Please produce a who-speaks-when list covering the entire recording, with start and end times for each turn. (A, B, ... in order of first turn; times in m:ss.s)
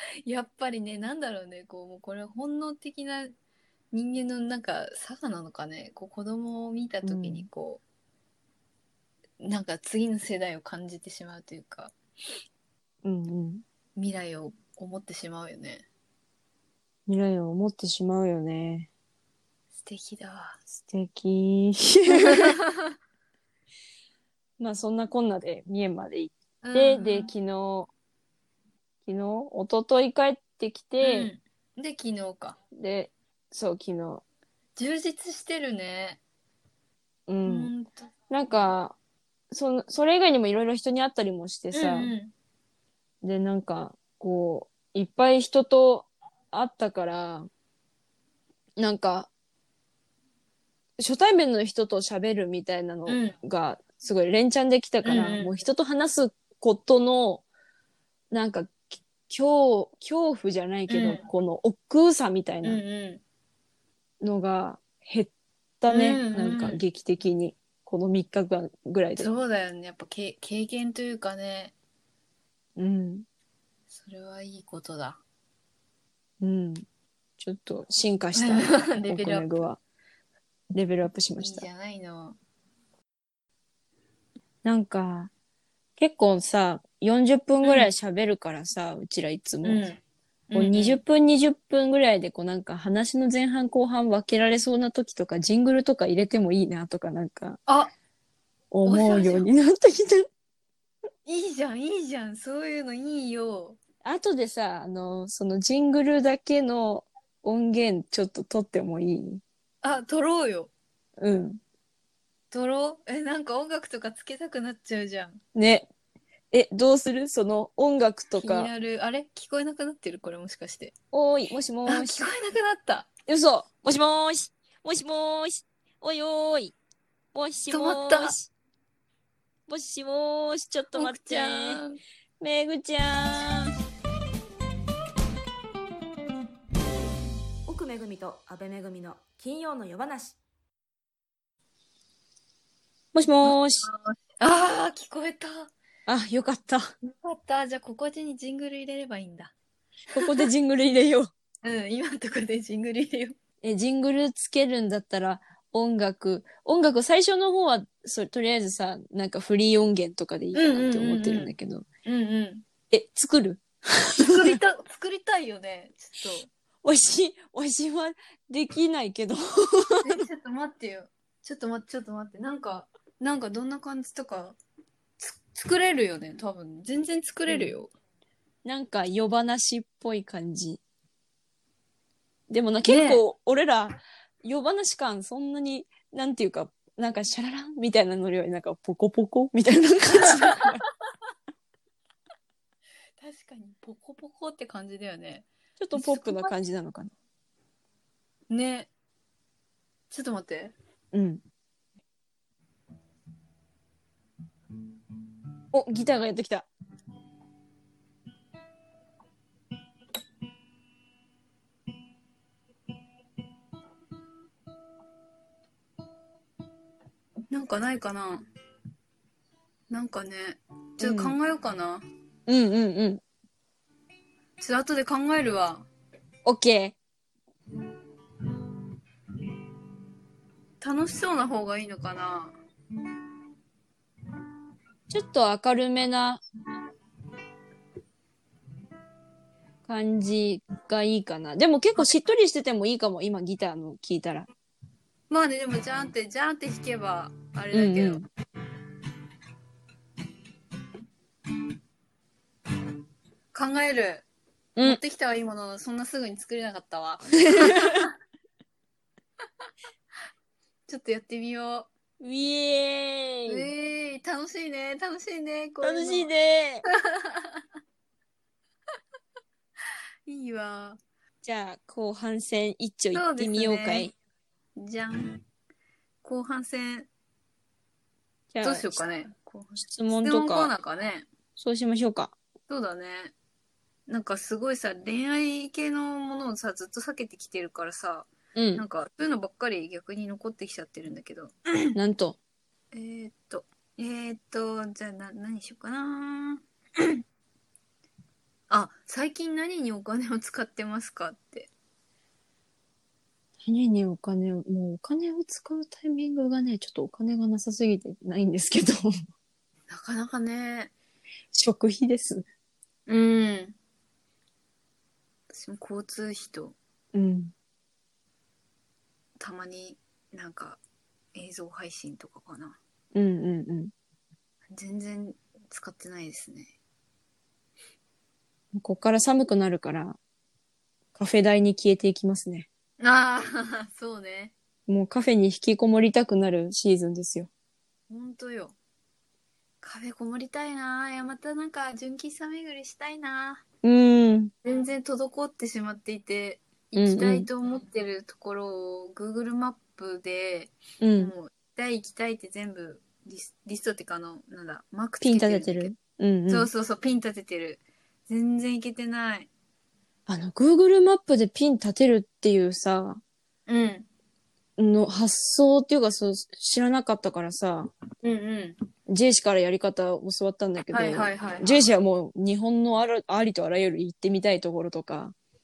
0:00.3-0:03.3 A
0:03.9-0:07.8 A
0:07.0-0:07.5 B
0:09.4-0:11.9 A
0:13.0-0:13.6 B
0:14.0-0:15.9 A
0:17.1-0:18.9 B
0:19.8-0:20.6 A
0:20.7-0:22.6 B
0:22.1-0:22.7 A
0:24.6-0:27.9 B
0:26.6-0:27.3 A
0:29.0-0:31.3 B
0:31.0-0:32.6 A
0:32.7-0:34.2 B
0:34.8-0:36.2 A
0:37.3-0:37.7 B
0:37.4-0:38.1 A
0:38.3-0:39.0 B
0:39.5-0:42.1 B
0:41.7-0:42.3 A
0:43.2-0:47.5 B
0:48.8-0:49.3 B
0:51.0-0:57.4 B
0:53.1-0:53.3 A
0:55.0-0:55.5 A
0:58.3-1:02.8 B
1:00.9-1:01.2 A
1:02.6-1:03.2 A
1:04.2-1:09.3 B
1:05.9-1:06.8 A
1:09.2-1:11.8 A
1:12.8-1:13.3 B
1:13.9-1:15.2 A
1:16.4-1:16.8 B
1:17.4-1:19.8 B
1:18.4-1:19.6 A
1:20.7-1:21.7 B
1:21.4-1:22.4 A
1:24.6-1:25.3 B
1:26.0-1:29.8 B
1:27.6-1:27.9 A
1:29.6-1:31.0 A
1:30.5-1:37.6 B
1:38.7-1:40.3 B
1:38.9-1:39.5 A
1:41.2-1:43.8 A
1:44.0-1:49.4 B
1:49.8-1:50.7 A
1:51.2-1:51.6 B
1:52.5-1:55.4 A
1:55.6-1:55.9 B
1:56.5-1:58.7 B
1:58.4-2:00.9 A
2:01.1-2:02.3 B
2:01.9-2:03.1 A
2:03.3-2:06.8 B
2:07.3-2:08.5 B
2:07.7-2:08.4 A
2:09.7-2:11.8 B
2:10.9-2:12.0 A
2:12.4-2:13.8 B
2:17.7-2:20.4 C
2:23.1-2:23.9 B
2:23.4-2:25.7 A
2:26.1-2:26.9 B
2:27.0-2:29.5 A
2:30.1-2:31.3 B
2:30.2-2:30.4 A
2:31.6-2:33.4 A
2:33.6-2:41.9 B
2:40.5-2:41.5 A
2:42.0-2:42.6 A
2:42.9-2:44.6 B
2:44.2-2:46.5 A
2:46.8-2:50.3 B
2:50.0-2:54.6 A
2:55.2-2:57.9 A
2:57.5-2:57.8 B
2:58.6-3:00.8 B
3:02.5-3:10.8 B
3:02.8-3:03.2 A
3:13.2-3:16.6 A
3:15.8-3:17.1 B
3:18.5-3:18.9 A
3:20.1-3:20.7 A
3:21.1-3:21.4 B
3:25.7-3:26.7 B
3:37.5-3:38.5 A
3:39.9-3:42.0 A
3:41.0-3:41.4 B
3:42.5-3:43.2 B
3:44.6-3:45.9 A
3:46.4-3:47.0 B
3:50.8-3:52.5 A
3:55.1-3:56.4 B
3:59.9-4:04.5 B
4:05.3-4:08.2 A
4:07.7-4:08.3 B
4:13.5-4:14.3 A
4:14.8-4:18.1 A
4:17.4-4:18.1 B
4:20.9-4:21.9 A
4:22.2-4:23.7 B
4:23.5-4:26.3 A
4:25.8-4:26.8 B
4:26.9-4:27.6 A
4:30.3-4:31.0 A
4:31.4-4:34.1 B
4:33.1-4:34.1 A
4:34.8-4:35.4 A
4:36.2-4:37.1 A
4:38.5-4:39.0 B
4:38.6-4:41.3 A
4:39.8-4:40.7 B
4:41.6-4:42.4 B
4:42.7-4:43.3 A
4:44.1-4:51.6 A
4:48.6-4:48.8 B
4:52.0-4:52.4 B
4:52.9-4:57.2 A
4:58.7-5:01.7 A
5:03.6-5:09.1 B
5:09.9-5:10.9 A
5:11.5-5:12.4 B
5:13.1-5:13.8 A
5:15.5-5:16.8 A
5:17.1-5:17.5 B
5:19.4-5:20.8 A
5:21.4-5:22.8 A
5:23.1-5:23.9 B
5:24.7-5:26.7 A
5:28.7-5:30.2 B
5:31.2-5:32.7 B
5:33.0-5:34.5 A
5:34.9-5:37.5 B
5:38.1-5:38.8 A
5:39.8-5:43.6 A
5:43.8-5:44.5 B
5:44.6-5:55.9 A
5:47.0-5:47.5 B
5:51.0-5:51.3 B
5:55.2-5:56.7 B
5:56.5-5:59.5 A
6:00.3-6:03.2 B
6:03.7-6:04.1 A
6:04.8-6:07.9 B
6:08.2-6:08.8 A
6:09.1-6:15.3 B
6:10.9-6:11.9 A